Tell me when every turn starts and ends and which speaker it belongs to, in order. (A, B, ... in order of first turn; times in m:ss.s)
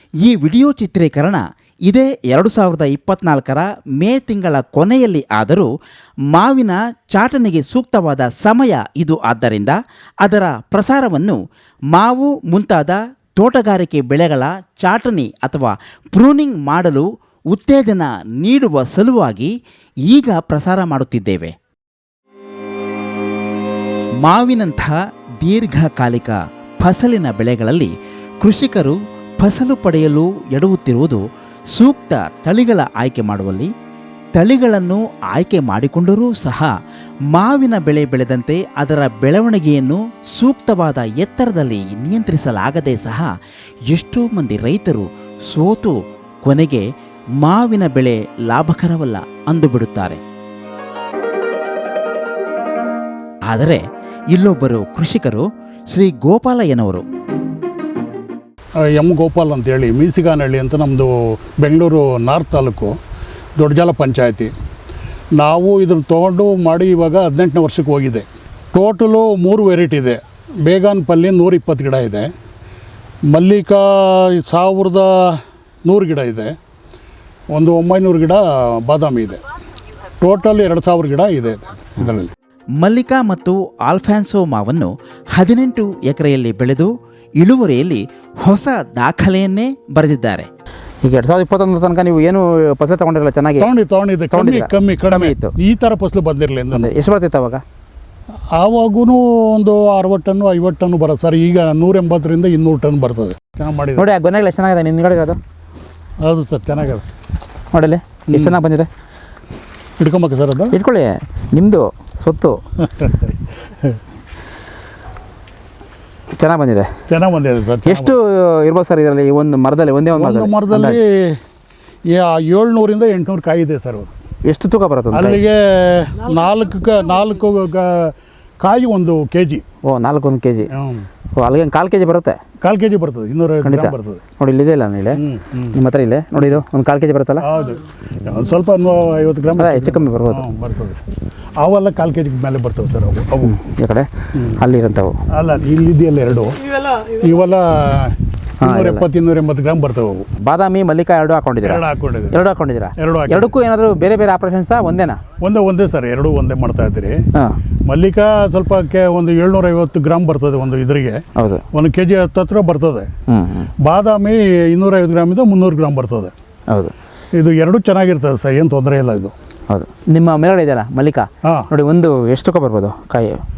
0:00.2-0:05.7 A
0:06.3-0:11.4 A
0:11.9-0:19.5 A
0:20.1-0:21.5 A
0:24.2-0:31.2 A
0:31.8-0:33.7 A
0:34.4-0:36.7 A
0:37.3-0:43.3 A
0:43.9-0:46.8 A
0:47.4-0:50.2 A
0:53.5-0:57.0 A
0:58.9-1:03.0 B
1:03.6-1:04.5 B
1:05.4-1:12.3 B
1:13.3-1:16.5 B
1:17.5-1:19.4 B
1:20.2-1:22.3 B
1:22.8-1:30.5 A
1:31.0-1:33.7 C
1:33.6-1:36.9 B
1:34.3-1:35.5 C
1:36.7-1:37.6 C
1:38.5-1:44.1 B
1:44.0-1:45.4 C
1:46.2-1:47.0 B
1:47.7-1:48.9 C
1:50.0-1:50.8 B
1:50.7-1:52.6 C
1:52.8-1:54.0 B
1:56.4-1:56.9 C
1:57.1-1:58.1 B
1:57.8-2:01.0 C
2:00.2-2:01.4 B
2:02.1-2:04.1 B
2:04.4-2:05.4 C
2:05.1-2:09.6 B
2:09.9-2:10.7 C
2:10.7-2:11.1 B
2:11.4-2:12.4 C
2:12.6-2:14.2 B
2:13.6-2:15.2 C
2:15.2-2:15.8 B
2:15.7-2:17.5 C
2:17.4-2:21.0 B
2:19.6-2:20.5 C
2:21.6-2:23.6 B
2:23.4-2:25.2 C
2:24.3-2:24.6 B
2:25.3-2:30.3 B
2:28.6-2:29.1 C
2:30.4-2:35.2 C
2:31.6-2:32.4 B
2:33.0-2:33.5 B
2:35.4-2:37.2 B
2:37.9-2:43.1 B
2:41.4-2:41.6 C
2:43.3-2:43.7 C
2:43.8-2:46.3 B
2:46.7-2:46.9 C
2:47.3-2:49.3 B
2:49.7-2:53.4 C